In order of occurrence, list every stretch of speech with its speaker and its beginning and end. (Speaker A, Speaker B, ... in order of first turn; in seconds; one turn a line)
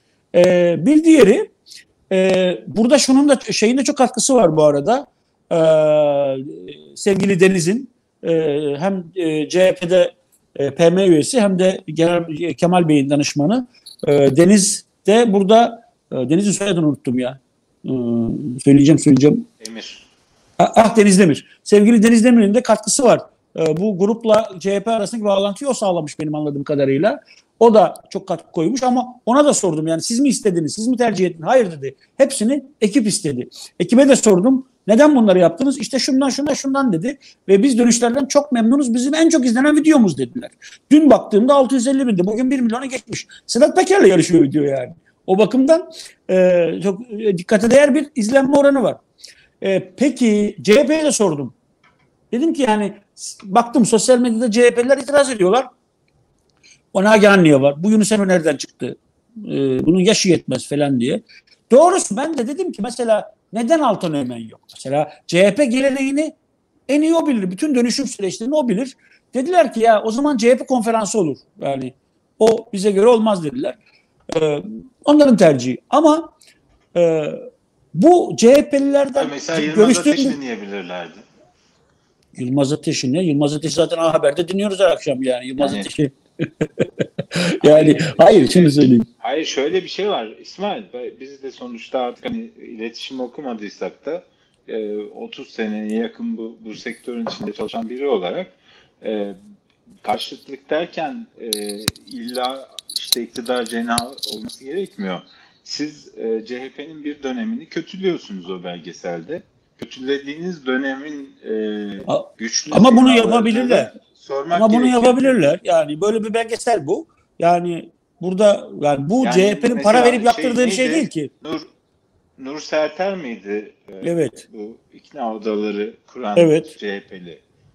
Speaker A: 0.3-1.5
Speaker A: 2.1-19.5
Speaker B: 19.6-20.1
Speaker A: 20.6-49.0
Speaker A: 49.6-51.5
Speaker A: 52.3-55.7
Speaker A: 56.9-66.3
Speaker A: 66.9-73.8
Speaker A: 74.3-76.3
Speaker A: 77.0-80.4
Speaker B: 79.2-81.2
Speaker A: 82.4-89.0
Speaker B: 85.6-85.9
Speaker B: 87.6-99.4
Speaker B: 100.0-115.5
Speaker A: 112.1-113.9
Speaker A: 114.5-121.3
Speaker B: 119.2-121.7
Speaker B: 122.4-127.4
Speaker A: 124.0-124.4
Speaker A: 126.4-126.7